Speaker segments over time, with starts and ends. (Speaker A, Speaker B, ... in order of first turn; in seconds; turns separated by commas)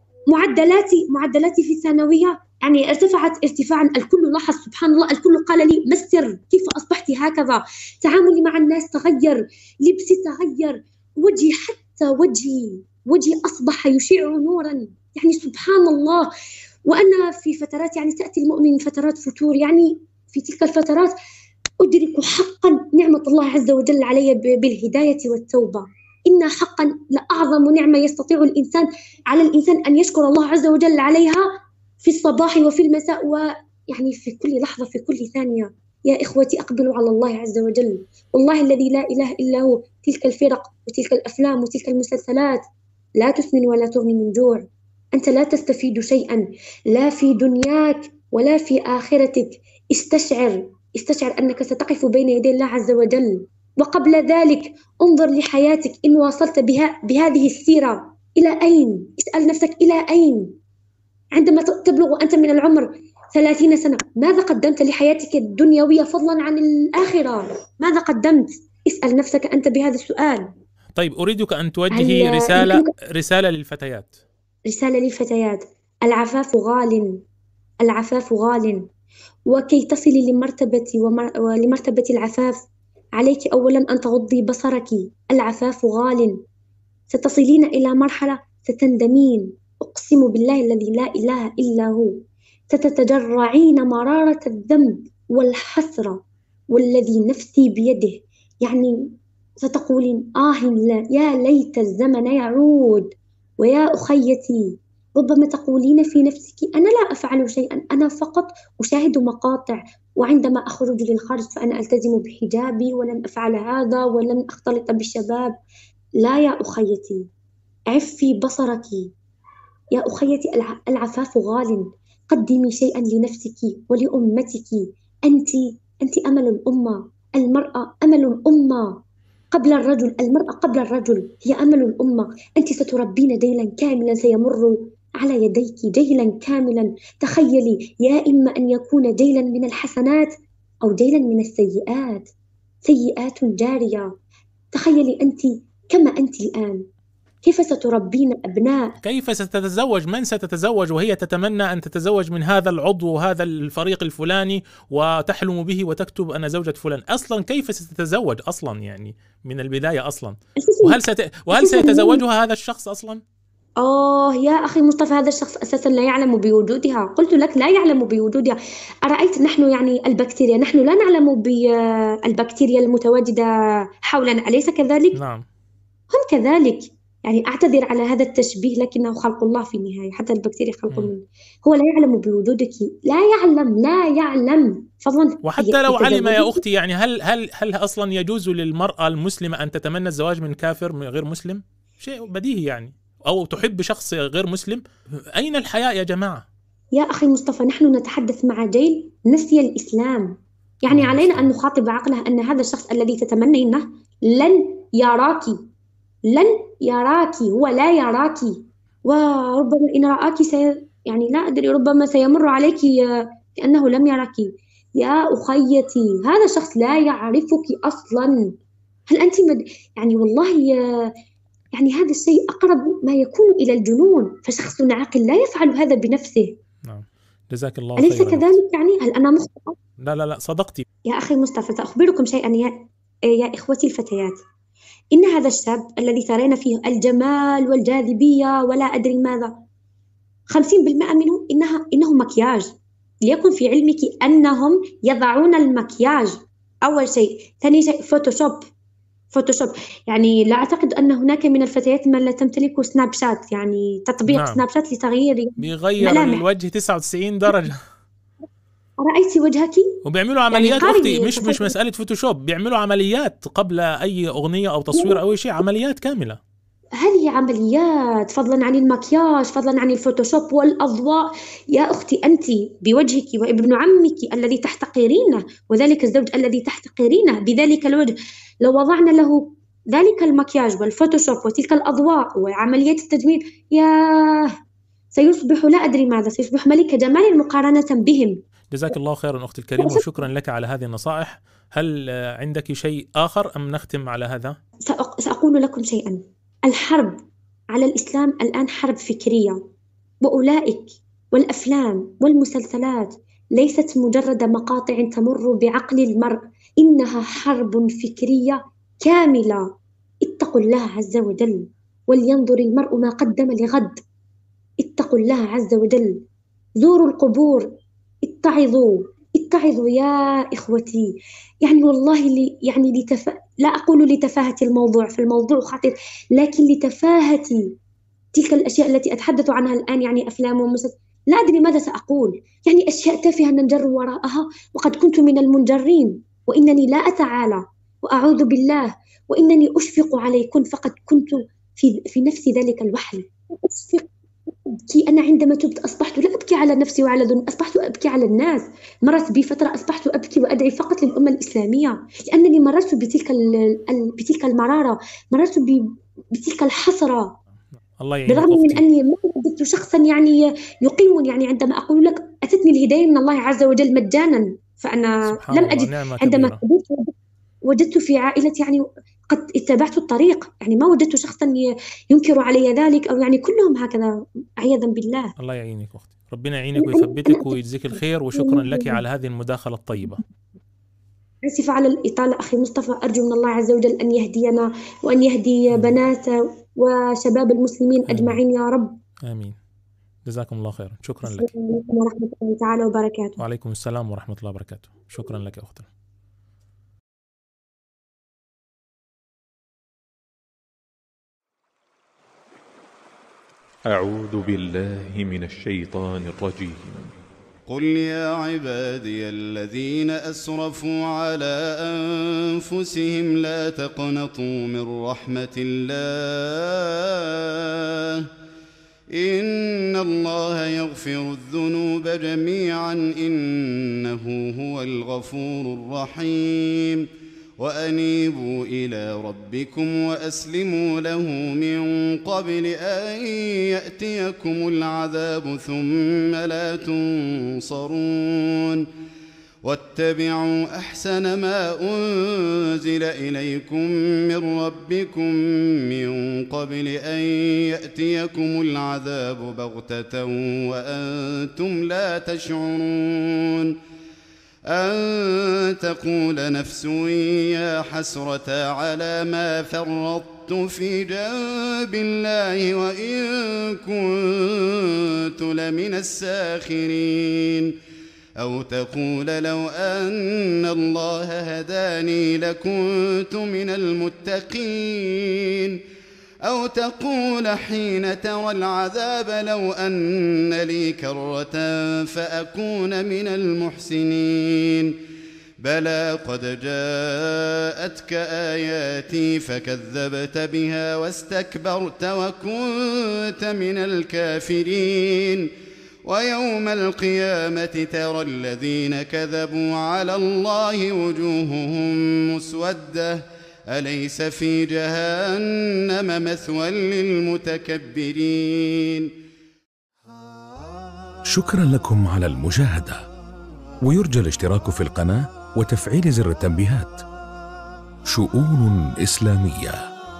Speaker A: 0.3-16.3, Speaker A: 16.9-21.1, Speaker A: 21.8-31.4, Speaker A: 32.0-42.6, Speaker A: 43.2-60.5, Speaker A: 61.3-70.5, Speaker B: 71.0-74.2, Speaker A: 71.9-72.9, Speaker A: 74.7-77.2, Speaker A: 77.8-78.9, Speaker A: 79.5-82.7, Speaker A: 83.2-86.4, Speaker A: 87.1-99.0, Speaker A: 99.6-115.6, Speaker A: 116.2-117.3, Speaker A: 117.9-119.1, Speaker A: 119.9-129.0, Speaker A: 129.5-140.3, Speaker A: 140.8-142.3, Speaker A: 142.8-144.1, Speaker A: 144.7-146.8, Speaker A: 147.4-149.0, Speaker B: 149.0-163.2, Speaker A: 160.6-161.0, Speaker A: 161.5-162.2, Speaker A: 163.8-173.5, Speaker A: 174.1-175.2, Speaker B: 175.2-175.4, Speaker A: 176.1-186.6, Speaker B: 185.4-194.8, Speaker B: 195.3-196.4, Speaker A: 196.9-205.6, Speaker B: 200.9-201.5, Speaker A: 206.3-218.5, Speaker A: 219.1-221.1, Speaker A: 221.8-226.5, Speaker B: 226.9-228.6, Speaker A: 228.0-229.8, Speaker B: 230.0-230.8, Speaker A: 231.1-234.4, Speaker A: 235.1-239.6, Speaker A: 240.5-242.7, Speaker A: 243.3-248.6, Speaker A: 249.3-256.4, Speaker B: 254.3-254.6, Speaker B: 255.6-257.8, Speaker A: 259.0-260.0, Speaker B: 260.1-266.4, Speaker A: 260.5-261.7, Speaker A: 267.0-284.6, Speaker A: 285.1-288.4, Speaker B: 288.7-294.6, Speaker A: 289.8-290.1, Speaker A: 294.9-297.2, Speaker A: 297.7-299.6, Speaker A: 300.2-309.7, Speaker A: 310.2-314.0, Speaker A: 314.8-316.2, Speaker A: 316.8-327.7, Speaker A: 328.3-357.4, Speaker B: 358.0-358.8, Speaker A: 358.3-367.1, Speaker B: 365.3-366.6, Speaker A: 367.6-375.3, Speaker B: 375.4-380.2, Speaker A: 376.8-377.6, Speaker A: 378.4-379.0, Speaker A: 381.4-389.0, Speaker B: 388.1-388.4, Speaker B: 389.3-389.6, Speaker B: 390.3-391.5, Speaker A: 391.3-393.4, Speaker B: 393.4-395.9, Speaker C: 403.9-407.1, Speaker D: 407.7-418.3, Speaker D: 419.1-427.1, Speaker D: 427.6-438.9, Speaker D: 439.6-453.8, Speaker D: 454.7-467.8, Speaker D: 468.4-475.8, Speaker D: 476.4-485.0, Speaker D: 485.6-495.5, Speaker D: 496.1-509.1, Speaker E: 511.3-513.0, Speaker E: 513.9-517.0, Speaker E: 518.1-519.8